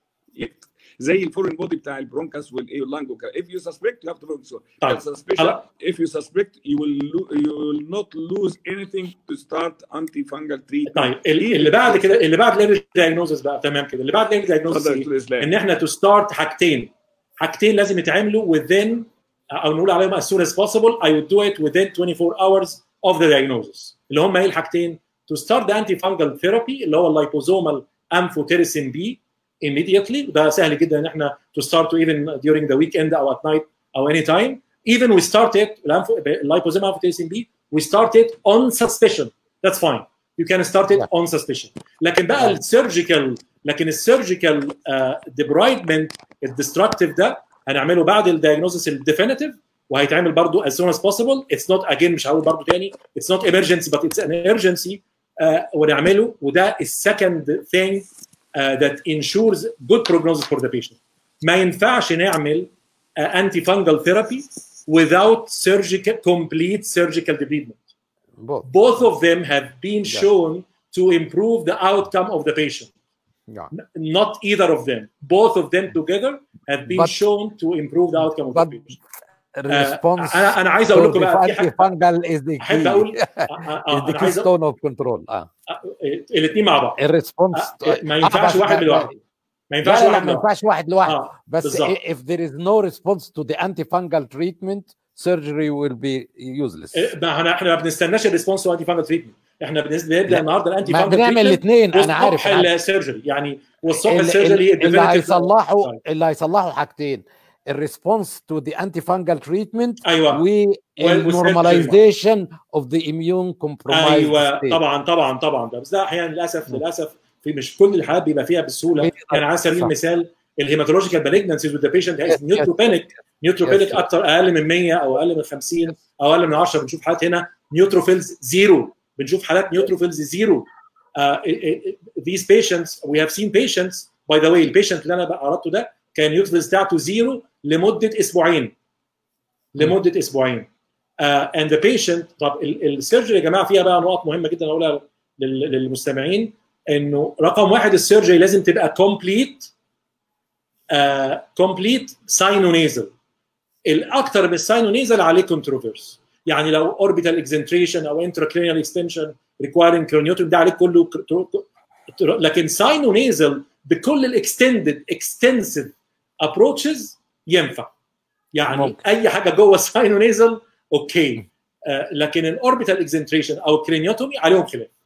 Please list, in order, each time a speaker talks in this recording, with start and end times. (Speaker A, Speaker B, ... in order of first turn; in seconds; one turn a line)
Speaker A: 0.3-12.1
Speaker B: 4.8-5.6
Speaker B: 10.9-67.8
Speaker A: 14.7-15.5
Speaker C: 68.4-68.7
Speaker B: 68.6-72.9
Speaker B: 73.7-79.0
Speaker C: 76.9-77.2
Speaker C: 78.2-78.8
Speaker C: 79.5-85.5
Speaker B: 79.7-81.9
Speaker B: 82.6-84.5
Speaker B: 85.7-87.0
Speaker C: 87.0-89.2
Speaker B: 87.5-89.1
Speaker B: 89.7-90.5
Speaker C: 89.8-97.0
Speaker B: 91.0-92.0
Speaker B: 96.9-106.0
Speaker C: 100.3-102.7
Speaker C: 104.0-114.8
Speaker B: 110.0-110.4
Speaker B: 111.0-112.0
Speaker B: 113.9-138.7
Speaker C: 119.0-119.9
Speaker C: 122.3-122.9
Speaker C: 123.6-124.0
Speaker B: 139.7-140.7
Speaker B: 141.2-149.7
Speaker B: 150.9-153.1
Speaker B: 153.8-167.9
Speaker B: 168.5-174.9
Speaker C: 168.7-169.0